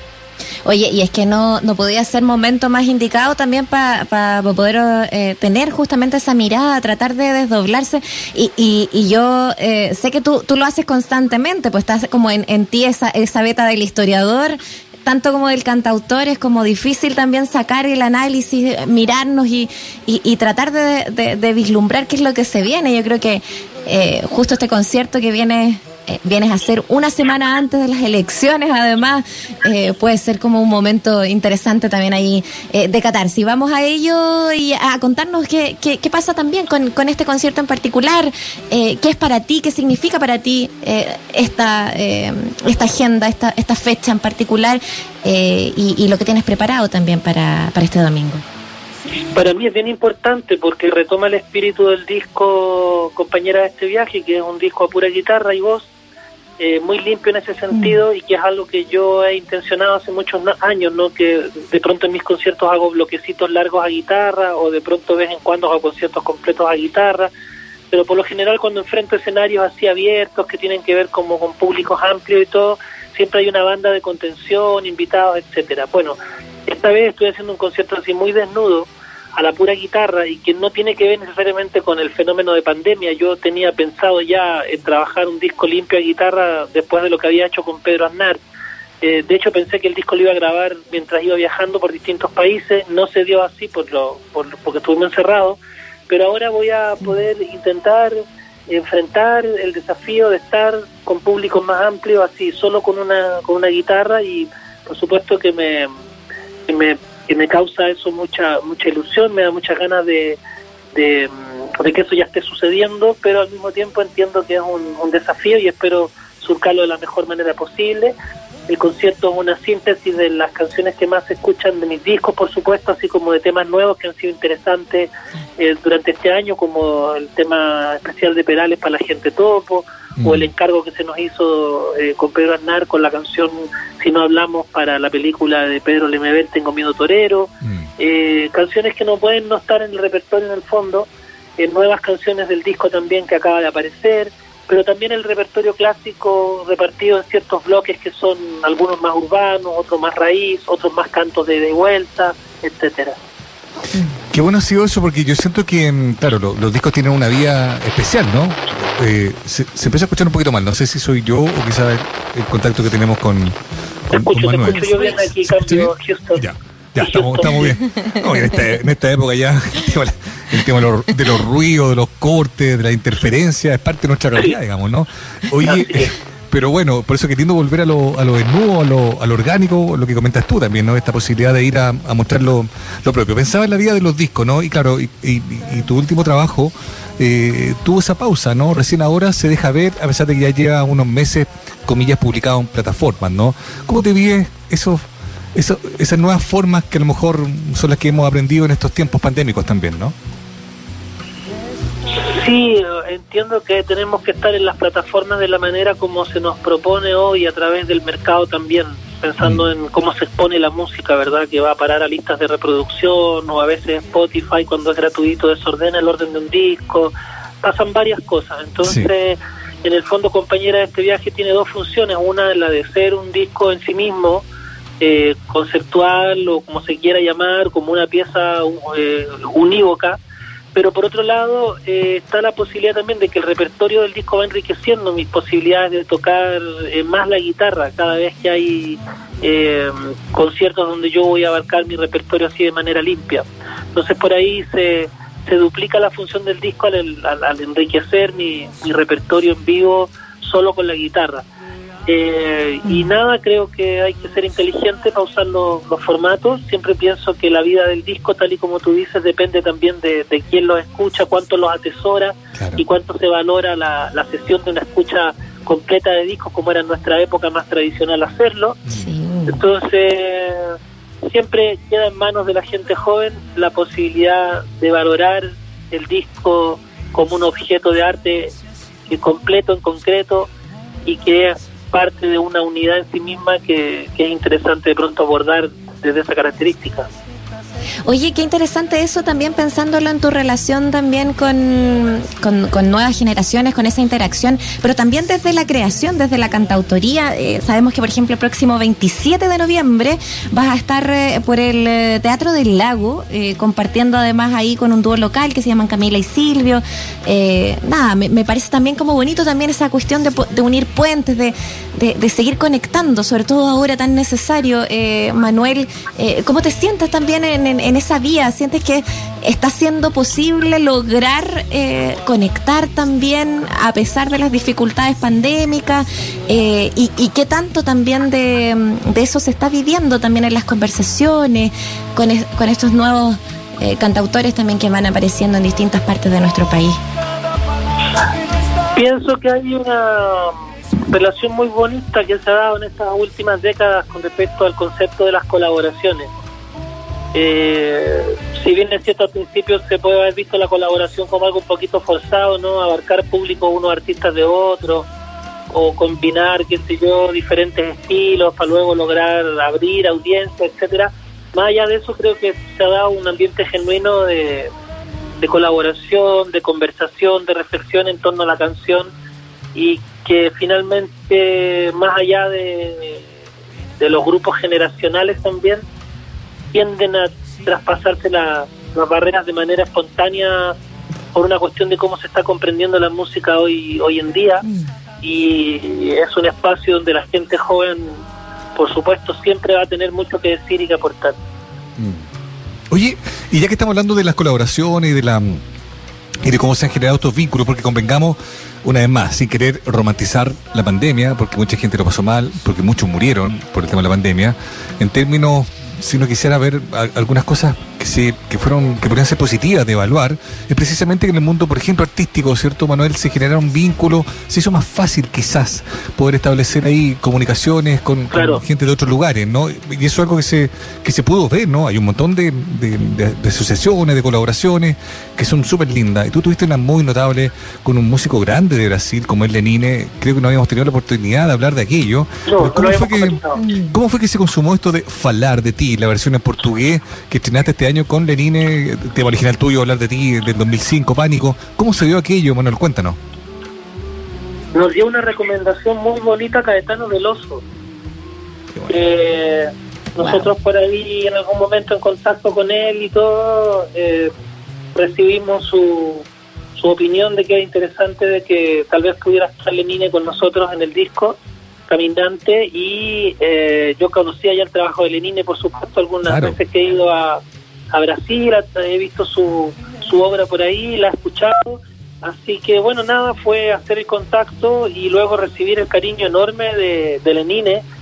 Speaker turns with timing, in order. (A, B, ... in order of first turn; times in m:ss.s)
0:00.6-0:48.4 A
0:49.3-0:55.9 B
0:56.6-1:07.3 B
0:57.7-0:58.0 A
1:07.9-1:28.4 B
1:29.0-1:38.2 B
1:38.7-1:45.9 B
1:46.7-1:50.4 B
1:50.9-1:58.1 B
1:58.7-2:33.2 B
2:10.2-2:10.5 C
2:34.3-2:43.6 C
2:44.1-2:46.4 B
2:44.1-2:44.8 C
2:45.4-3:15.0 C
2:47.0-2:47.7 B
2:55.6-2:56.1 B
3:15.5-3:20.1 C
3:22.2-3:44.4 B
3:38.8-3:39.1 C
3:45.0-3:50.2 B
3:50.7-4:11.4 B
4:12.1-4:28.8 B
4:12.8-4:13.1 A
4:28.9-4:29.6 A
4:29.5-4:38.5 B
4:39.1-4:40.5 B
4:41.0-4:47.1 B
4:48.0-5:37.0 A
5:38.9-5:40.5 B
5:41.1-5:46.3 B
5:47.3-5:55.1 B
5:55.7-6:04.7 B
6:05.4-6:09.1 B
6:09.7-6:13.3 B
6:14.0-6:15.8 B
6:16.7-6:20.8 B
6:21.3-6:24.6 B
6:25.2-6:28.2 B
6:28.7-6:31.4 B
6:32.0-6:32.2 C
6:32.9-6:35.6 C
6:36.4-7:23.2 C
6:58.3-6:58.6 B
7:12.4-7:13.6 B
7:13.6-7:13.9 A
7:24.7-7:27.6 B
7:28.9-7:34.3 B
7:30.2-7:30.5 A
7:34.9-7:41.4 B
7:41.9-7:57.8 B
7:46.2-7:46.6 C